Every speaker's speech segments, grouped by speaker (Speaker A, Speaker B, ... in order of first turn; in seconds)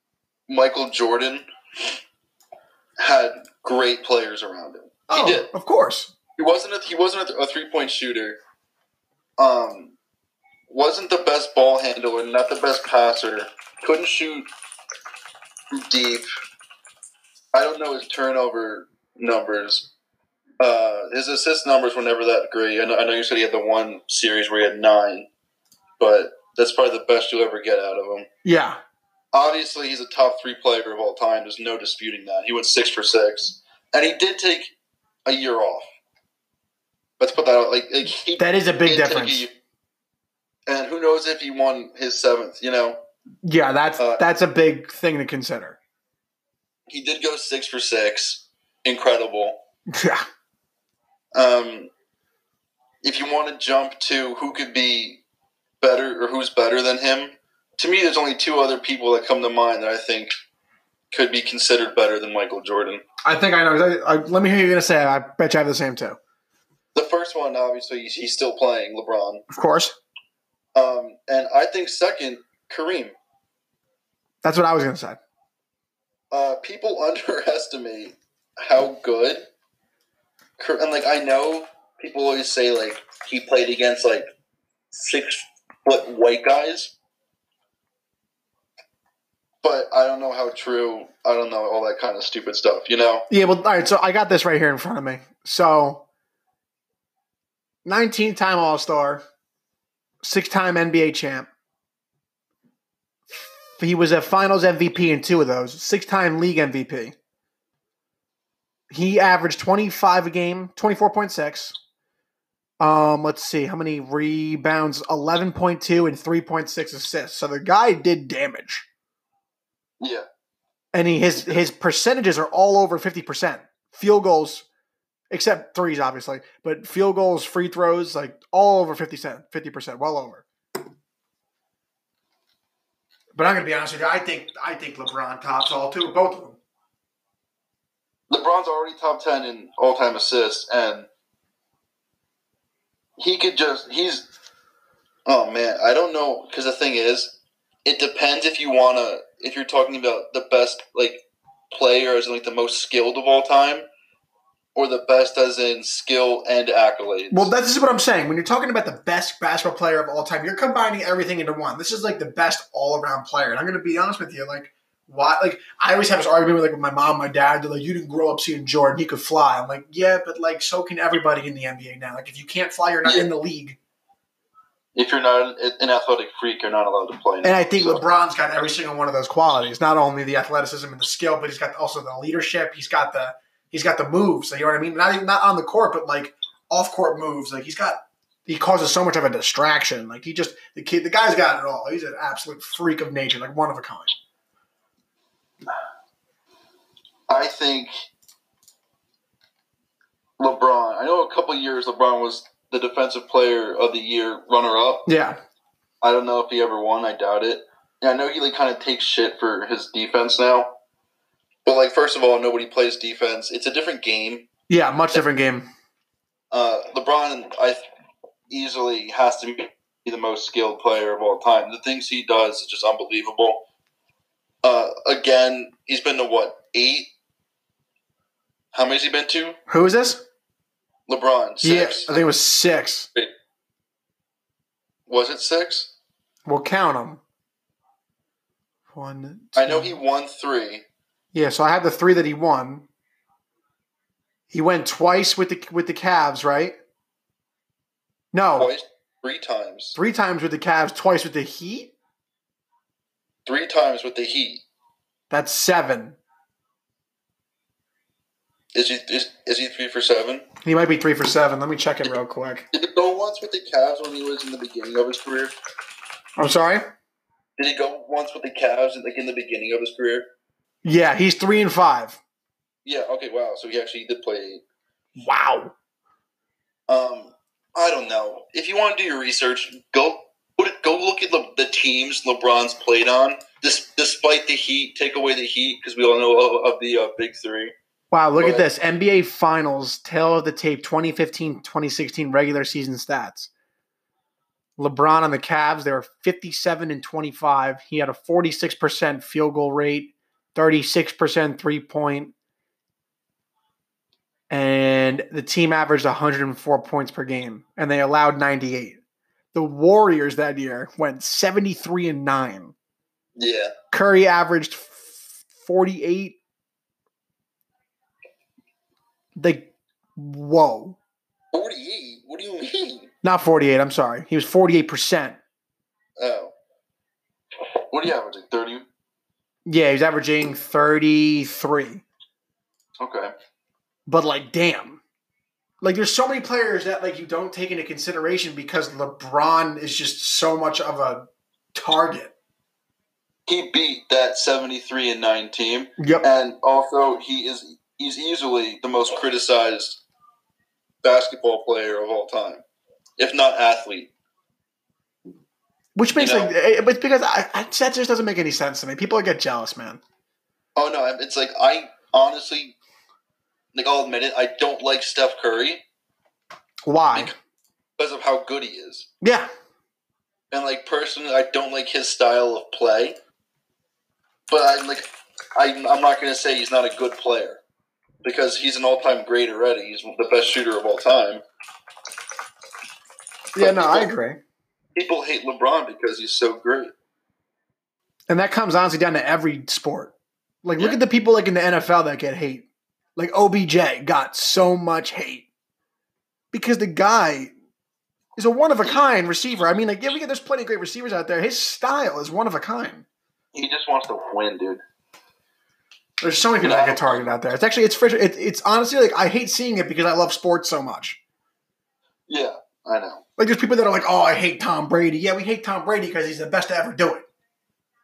Speaker A: 0.5-1.4, 3.0-5.5, 6.4-8.4, 9.4-9.9, 10.7-14.5, 15.7-16.2, 17.5-19.9, 20.6-25.3, 26.0-28.3, 29.3-34.7, 35.3-35.9, 37.2-39.5, 40.7-43.0, 44.0-44.2, 46.9-49.6, 51.3-51.9, 53.0-55.2, 55.8-60.3, 61.1-63.0, 67.0-69.4, 70.8-73.2, 76.3-79.4, 80.6-84.2, 84.9-86.9, 89.6-93.3, 138.3-141.1, 143.2-144.3, 145.3-147.3, 147.8-151.2, 151.7-153.8, 154.8-157.5, 174.9-178.0, 197.3-197.9, 200.4-205.1, 206.0-210.7, 211.7-214.4, 216.5-217.8, 218.5-223.6, 224.6-227.1, 228.7-229.6, 231.1-232.2, 235.1-235.9, 239.6-240.8, 248.6-250.0, 253.5-254.6, 258.8-260.4, 262.7-265.5, 267.6-270.3, 272.9-274.6, 276.9-287.7, 288.4-288.7, 313.4-313.7, 321.5-323.1, 326.2-326.5, 327.9-328.9, 333.0-333.3, 343.5-350.0, 351.0-352.6, 353.2-354.1, 356.2-356.5, 360.8-362.8, 363.7-365.8, 368.0-369.1, 370.5-373.2, 374.5-377.6, 378.2-381.4, 383.6-384.1, 385.0-386.9, 403.6-404.8, 406.6-407.2, 412.3-413.2
Speaker B: 5.1-6.1, 28.4-28.8, 38.4-39.5, 43.4-45.8, 49.9-50.3, 63.2-66.2, 69.5-70.0, 74.4-75.2, 93.3-96.0, 97.8-99.2, 100.2-101.5, 103.3-107.2, 108.9-111.8, 112.8-118.9, 120.9-124.7, 125.3-130.5, 133.3-136.6, 157.3-173.8, 177.4-194.2, 205.1-205.4, 214.7-215.7, 229.7-230.2, 231.6-233.1, 236.5-237.2, 238.9-239.9, 241.3-242.9, 244.5-246.8, 248.3-248.7, 249.9-251.9, 255.3-256.2, 260.6-262.7, 266.4-266.8, 270.8-272.2, 275.2-275.7, 288.1-293.5, 294.8-302.3, 304.5-309.0, 309.5-312.7, 313.9-316.4, 319.4-321.0, 323.2-325.4, 329.7-332.0, 334.1-335.0, 335.8-342.3, 346.0-346.2, 356.0-360.0, 366.9-367.3, 369.2-369.5, 383.6-384.4, 388.3-395.5, 396.5-397.5, 398.4-403.1, 406.2-411.2, 413.4-417.3